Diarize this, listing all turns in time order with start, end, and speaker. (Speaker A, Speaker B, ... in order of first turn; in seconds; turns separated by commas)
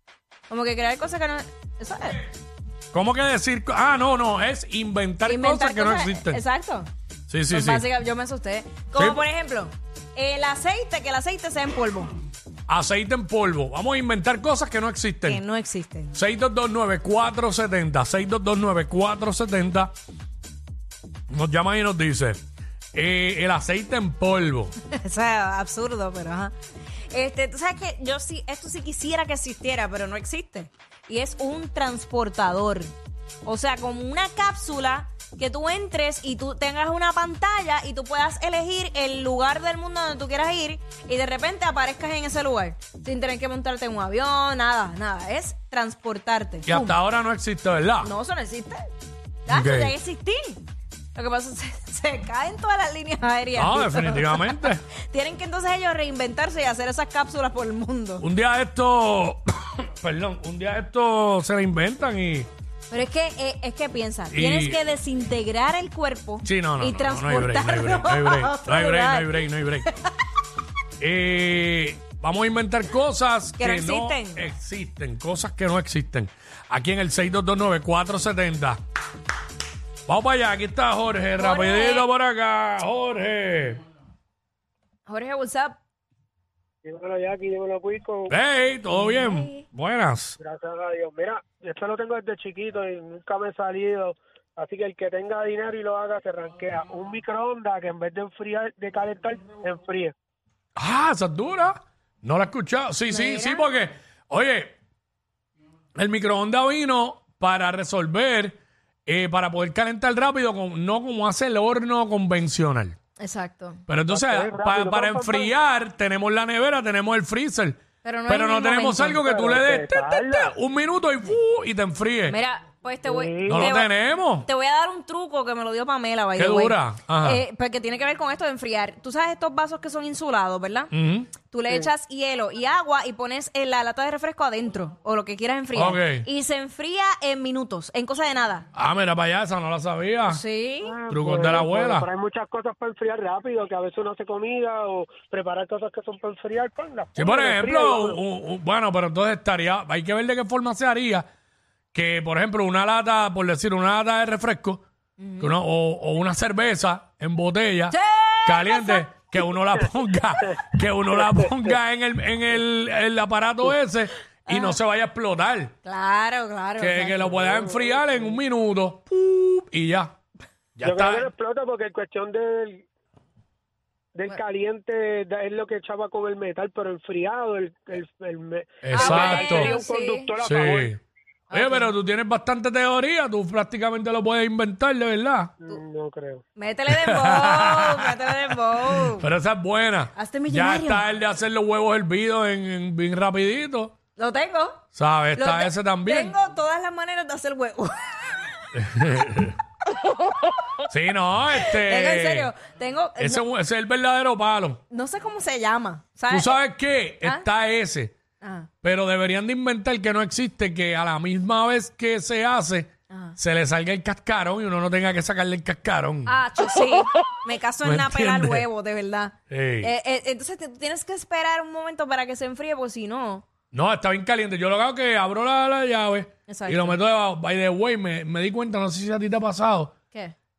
Speaker A: 0.5-2.2, Speaker B: 2.9-6.4, Speaker A: 5.2-6.9, Speaker B: 7.3-7.9, Speaker A: 7.5-12.1, Speaker B: 8.9-9.2, Speaker B: 12.7-15.4, Speaker A: 15.2-16.1, Speaker B: 16.1-19.9, Speaker B: 21.3-22.4, Speaker B: 22.9-24.7, Speaker A: 24.9-26.5, Speaker A: 27.1-32.9, Speaker A: 33.4-47.0, Speaker B: 46.7-48.1, Speaker A: 48.0-48.9, Speaker A: 49.5-50.6, Speaker B: 49.5-49.9, Speaker A: 51.1-58.2, Speaker B: 53.5-54.8, Speaker B: 58.2-62.5, Speaker A: 62.9-70.0, Speaker B: 64.3-64.8, Speaker B: 66.4-69.9, Speaker B: 71.0-78.8, Speaker A: 73.6-74.5, Speaker B: 80.1-83.8, Speaker A: 81.4-82.0, Speaker A: 85.0-85.8, Speaker C: 86.8-88.3, Speaker B: 88.3-90.3, Speaker A: 88.9-89.6, Speaker C: 90.4-100.1, Speaker B: 100.8-104.8, Speaker A: 103.1-103.6, Speaker B: 106.0-108.5, Speaker B: 109.1-113.0, Speaker A: 113.2-113.8, Speaker B: 113.9-122.4, Speaker C: 114.1-115.5, Speaker A: 118.0-119.2, Speaker C: 119.2-120.5, Speaker A: 122.3-123.9, Speaker C: 123.0-123.7, Speaker B: 123.5-124.5, Speaker A: 124.4-138.7, Speaker B: 126.3-127.4, Speaker B: 130.9-131.3, Speaker B: 135.7-136.2, Speaker B: 138.7-140.4, Speaker A: 140.3-140.9, Speaker C: 140.8-148.2, Speaker B: 141.1-142.1, Speaker B: 147.2-151.2, Speaker B: 151.9-154.8, Speaker A: 155.2-155.5, Speaker B: 155.4-165.7, Speaker A: 157.9-159.0, Speaker A: 164.4-164.8, Speaker A: 165.8-167.3, Speaker B: 166.8-170.1, Speaker C: 167.4-168.0, Speaker B: 170.8-171.3, Speaker C: 170.8-172.8, Speaker C: 174.1-180.9, Speaker B: 178.8-179.8, Speaker A: 178.9-180.3, Speaker B: 180.4-181.0, Speaker A: 181.5-181.9, Speaker B: 181.5-185.5, Speaker C: 185.6-186.4, Speaker A: 186.6-189.2, Speaker B: 186.9-193.9, Speaker A: 190.1-191.0, Speaker A: 194.2-194.8, Speaker B: 194.9-196.3, Speaker A: 195.3-198.7, Speaker B: 198.7-199.6, Speaker A: 199.9-200.6, Speaker B: 200.9-202.5, Speaker A: 201.6-203.4, Speaker B: 203.2-204.8, Speaker A: 204.9-206.6, Speaker B: 206.3-208.1, Speaker A: 208.4-208.7, Speaker B: 208.8-216.4, Speaker A: 213.1-213.3, Speaker A: 216.3-223.4, Speaker B: 217.8-218.7, Speaker B: 219.5-219.9, Speaker B: 223.7-229.9, Speaker A: 226.5-227.0